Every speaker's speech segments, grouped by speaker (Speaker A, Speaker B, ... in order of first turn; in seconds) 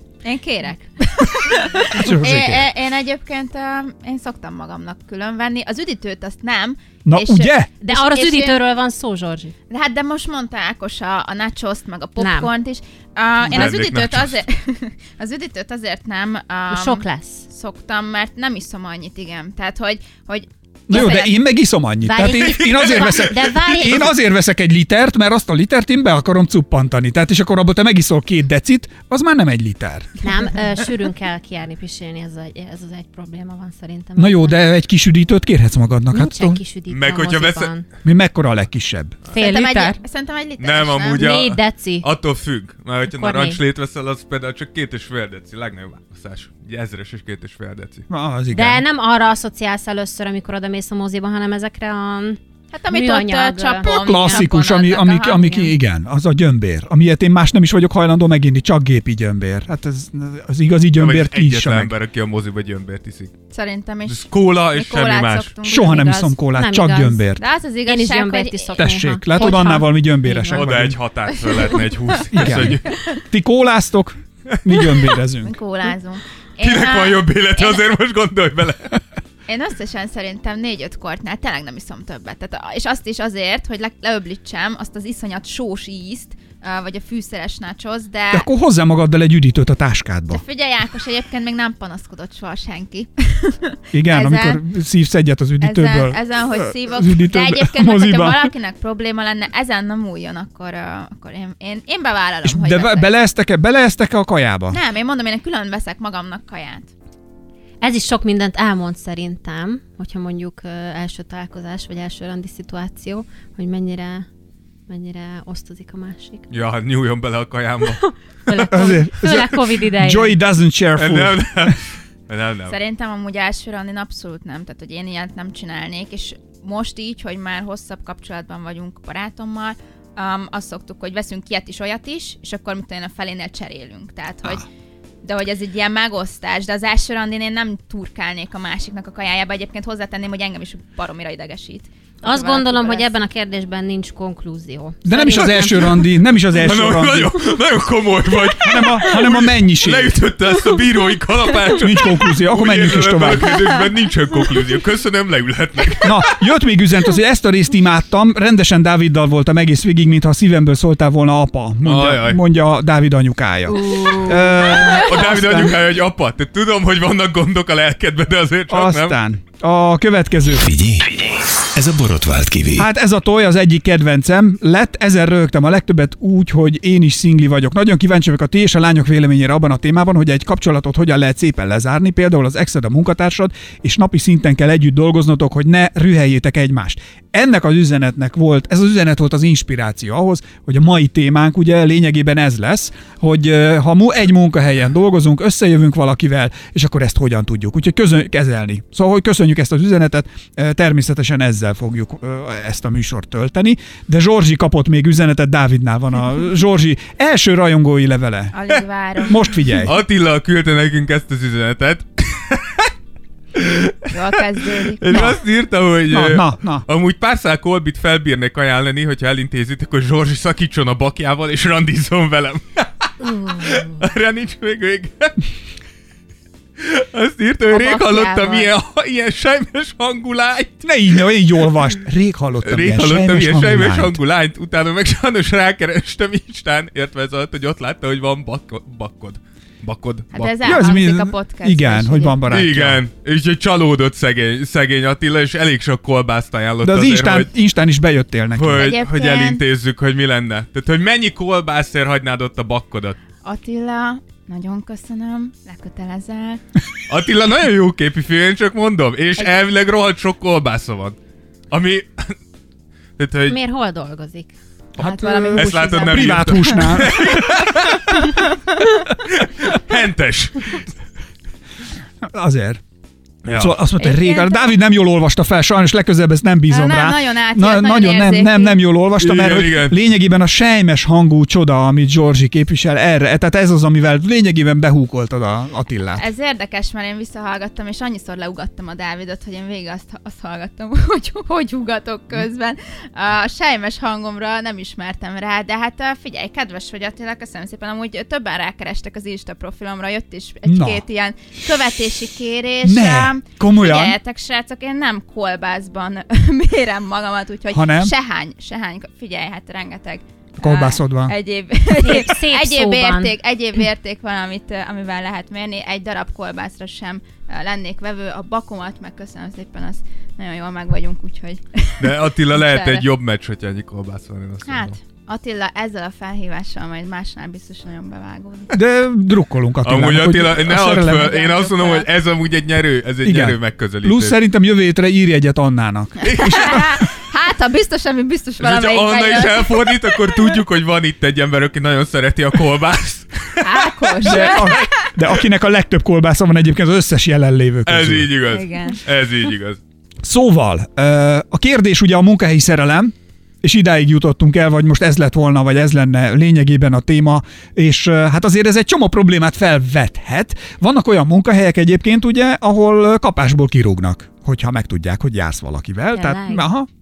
Speaker A: 0.2-8.6, 9.7-21.3, 39.4-41.2, 52.7-55.4, 63.5-66.3, 67.4-69.5, 71.4-71.8, 72.4-73.0, 75.4-77.8, 79.5-88.5, 90.3-94.6, 95.6-103.1, 104.7-106.9, 122.7-134.7, 135.2-143.1, 208.5-209.8, 214.1-215.3, 227.7-228.7, 240.3-242.4, 248.8-249.6, 253.4-256.6, 265.0-267.4, 274.0-274.6, 276.7-278.8, 286.2-323.1, 324.6-328.8, 331.1-332.1, 336.3-340.6, 343.6-344.9, 348.5-349.0
Speaker B: 1.9-2.7, 7.0-7.7, 20.9-30.1, 34.2-36.6, 38.0-39.2, 48.1-48.8, 53.8-61.9, 65.6-67.4, 68.8-71.0, 72.3-75.6, 88.3-90.4, 93.9-98.5, 102.4-104.8, 118.7-121.8, 145.1-147.4, 148.5-150.2, 151.7-153.8, 156.0-165.8, 168.7-170.7, 172.8-208.6, 209.3-210.0, 215.1-215.4, 216.1-216.8, 230.8-234.2, 240.6-243.0, 246.8-249.0, 265.0-267.7, 272.2-272.8, 273.5-286.3, 300.7-301.0, 302.8-304.2, 307.7-308.1, 310.6-311.4, 328.7-331.4, 333.2-337.0, 344.2-348.3, 350.2-366.9
Speaker C: 7.8-9.5, 12.2-12.5, 16.7-17.5, 22.0-24.2, 30.2-34.6, 36.1-37.9, 39.3-40.0, 41.1-42.1, 43.1-43.6, 48.5-52.4, 52.9-54.5, 55.2-55.7, 65.8-67.3, 67.9-70.7, 107.8-114.3, 114.9-116.5, 118.1-120.4, 142.2-146.1, 163.8-164.4, 263.5-264.5, 311.9-313.4, 366.1-366.7
Speaker D: 13.4-14.4, 22.4-23.2, 36.9-37.7, 40.6-48.0, 61.0-63.4, 64.1-65.6, 70.5-73.0, 76.6-79.0, 116.5-118.0, 121.0-122.8, 146.5-156.4, 161.8-162.4, 164.3-169.2, 209.8-212.9, 213.5-225.4, 226.8-230.9, 232.6-240.8, 242.5-247.5, 248.6-253.2, 257.1-261.2, 261.7-262.4, 263.2-263.6, 265.0-268.5, 269.1-270.9, 273.4-273.8, 279.2-280.0, 322.0-325.0, 329.8-334.4, 336.2-337.0, 338.6-344.8, 347.9-349.8
Speaker E: 170.6-172.9